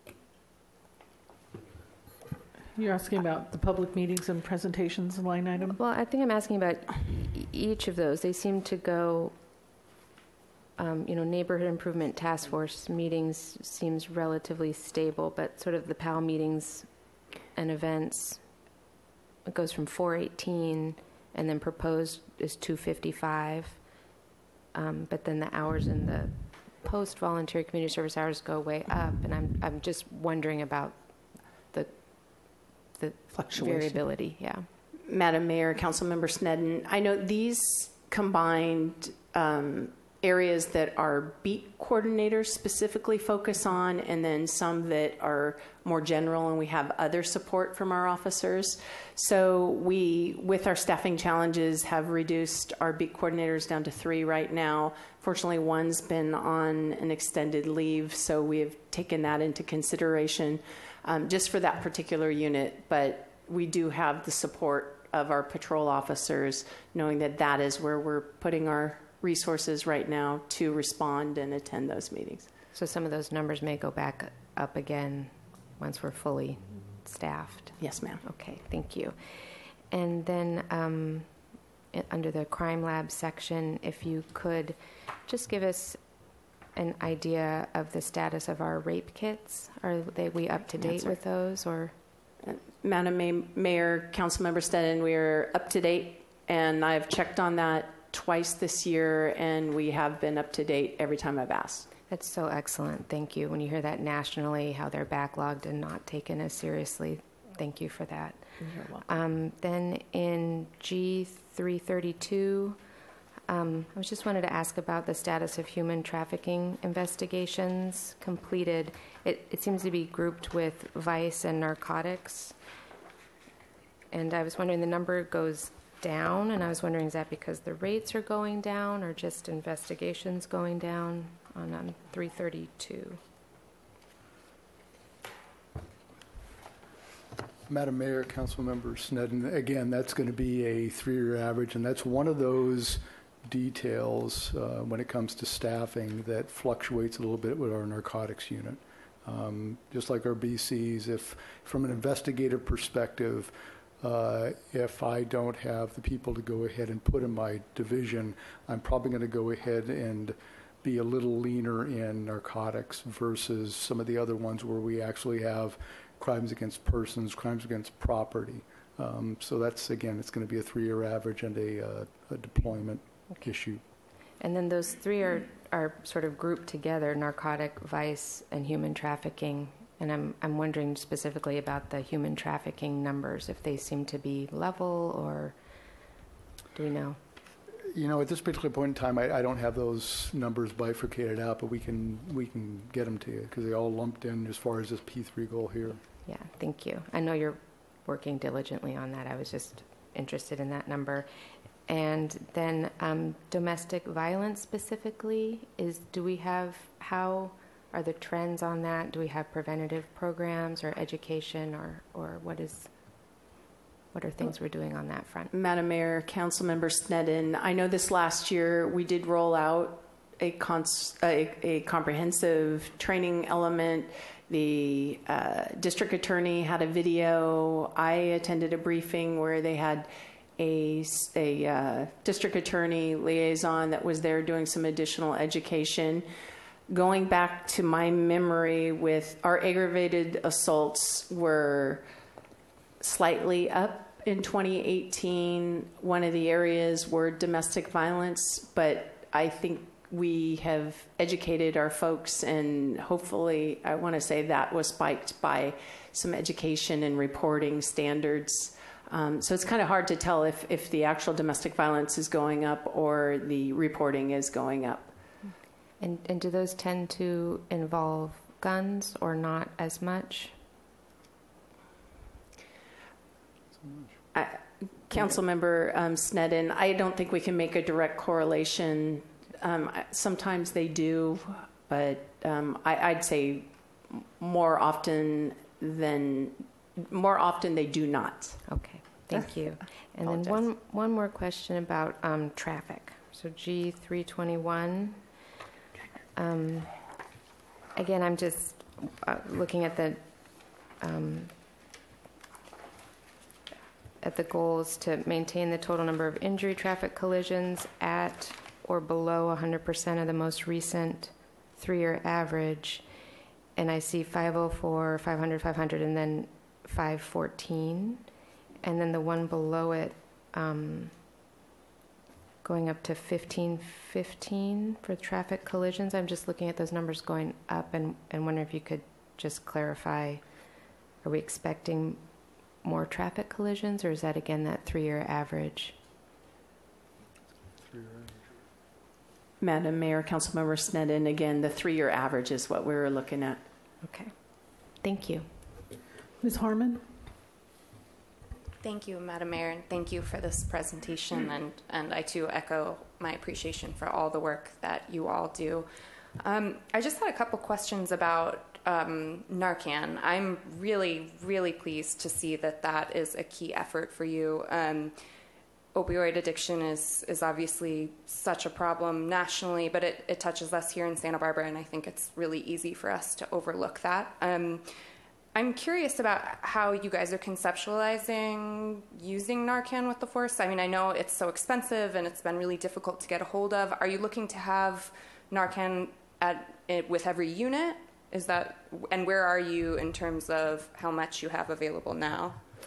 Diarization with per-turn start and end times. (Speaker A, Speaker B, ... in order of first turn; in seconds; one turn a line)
Speaker A: 2.8-5.8
Speaker B: 5.6-9.3
Speaker B: 10.8-16.9
Speaker B: 17.5-18.4
Speaker B: 19.4-23.8
Speaker B: 24.7-31.0
Speaker B: 31.7-34.7
Speaker C: 33.3-34.1
Speaker C: 35.0-72.5
Speaker B: 72.7-79.2
Speaker C: 77.8-78.2
Speaker B: 79.9-81.3
Speaker B: 81.9-86.0
Speaker B: 86.7-91.9
Speaker C: 90.8-91.2
Speaker C: 92.4-101.9
Speaker B: 102.1-112.8
Speaker C: 108.6-109.0
Speaker B: 113.5-122.5
Speaker B: 124.1-133.2
Speaker D: 137.7-173.8
Speaker B: 174.4-185.5
Speaker B: 186.7-187.2
Speaker D: 187.9-196.0
Speaker B: 196.2-201.3
Speaker B: 201.9-212.9
Speaker B: 214.1-215.5
Speaker C: 215.5-236.2
Speaker C: 236.9-242.0
Speaker C: 243.0-265.1
Speaker B: 266.0-270.5
Speaker C: 274.3-288.6
Speaker B: 288.6-295.2
Speaker C: 290.2-290.6
Speaker B: 296.4-296.9
Speaker B: 297.9-300.2
Speaker B: 301.0-301.5
Speaker B: 304.2-313.0
Speaker B: 313.8-318.2
Speaker B: 318.8-321.1
Speaker B: 322.6-330.4
Speaker B: 331.2-332.2
Speaker B: 332.8-335.9
Speaker D: 337.9-338.4
Speaker C: 339.6-343.6
Speaker B: 344.0-344.3
Speaker B: 345.0-345.5
Speaker A: 346.4-347.0
Speaker E: 348.8-355.9
Speaker E: 356.4-365.1
Speaker E: 365.9-374.9
Speaker E: 375.5-392.6